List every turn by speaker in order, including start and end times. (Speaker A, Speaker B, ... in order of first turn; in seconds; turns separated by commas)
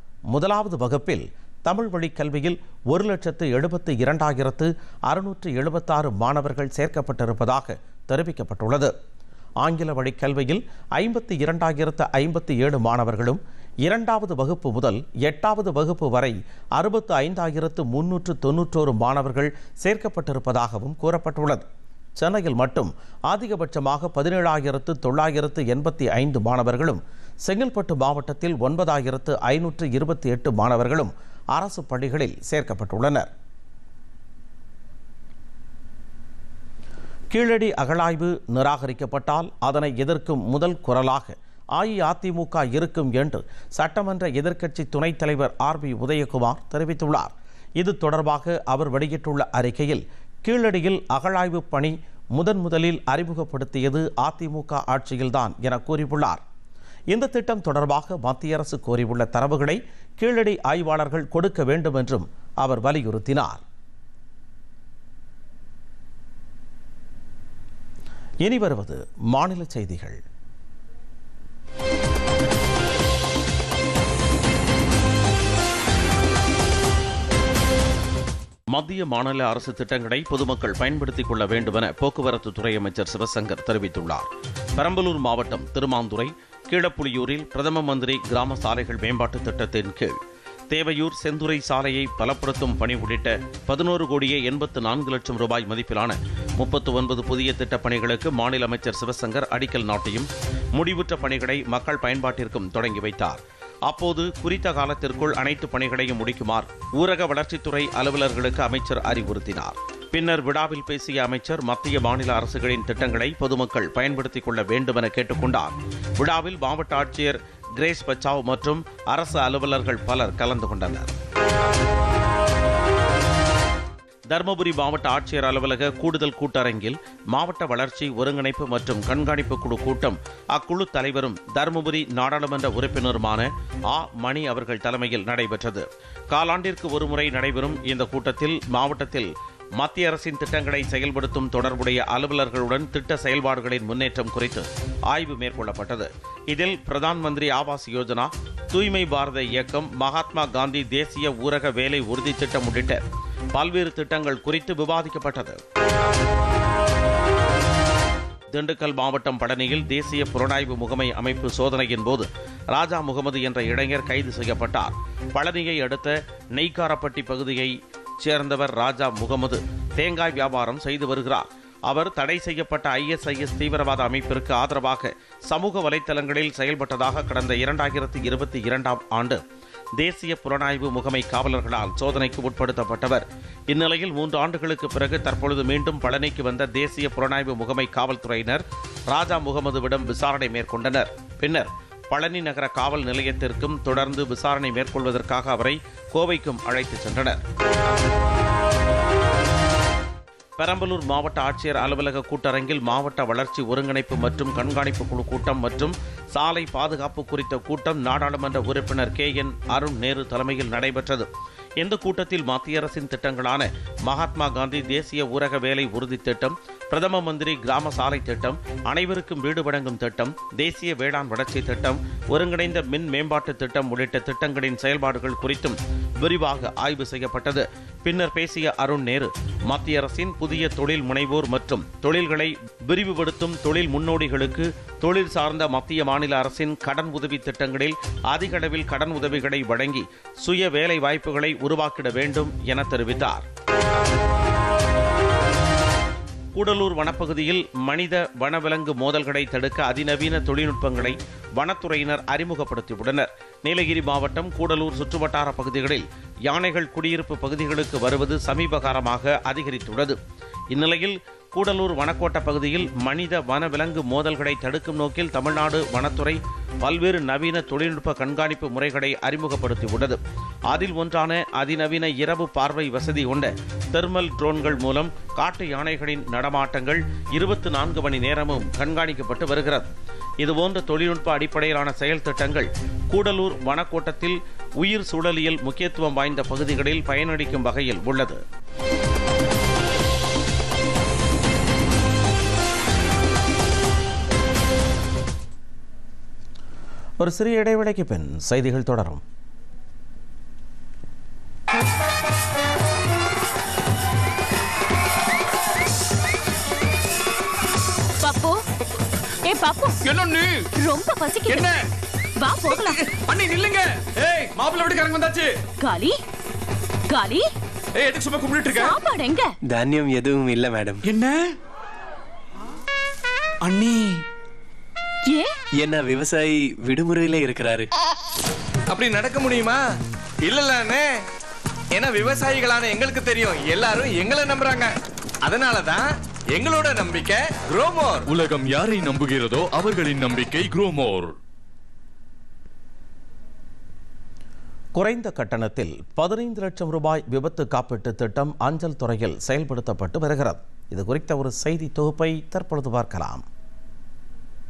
Speaker A: 0.3-8.9, Speaker A: 9.6-21.6, Speaker A: 22.2-33.3, Speaker A: 37.3-56.4, Speaker A: 57.1-63.6, Speaker A: 68.4-70.2, Speaker A: 78.7-90.2, Speaker A: 90.7-121.1, Speaker A: 124.3-153.0, Speaker A: 153.5-155.6, Speaker A: 158.5-179.4, Speaker A: 180.0-197.4, Speaker A: 200.6-211.3, Speaker A: 211.8-243.5, Speaker A: 246.5-260.2, Speaker A: 260.7-279.9, Speaker A: 280.4-288.4, Speaker A: 297.2-299.2, Speaker B: 308.2-308.6, Speaker B: 309.5-310.0, Speaker C: 310.0-310.7, Speaker B: 310.7-311.7, Speaker C: 311.5-311.9, Speaker B: 312.4-313.0, Speaker C: 312.7-315.6, Speaker B: 315.8-316.2, Speaker B: 317.1-317.5, Speaker C: 317.9-318.9, Speaker B: 318.7-319.5, Speaker D: 319.7-321.0, Speaker C: 321.0-321.5, Speaker C: 323.6-324.2, Speaker B: 325.3-325.5, Speaker D: 325.8-327.9, Speaker C: 328.9-329.8, Speaker C: 330.4-331.1, Speaker C: 332.0-334.9, Speaker C: 335.4-338.3, Speaker E: 338.3-341.4, Speaker A: 344.9-353.4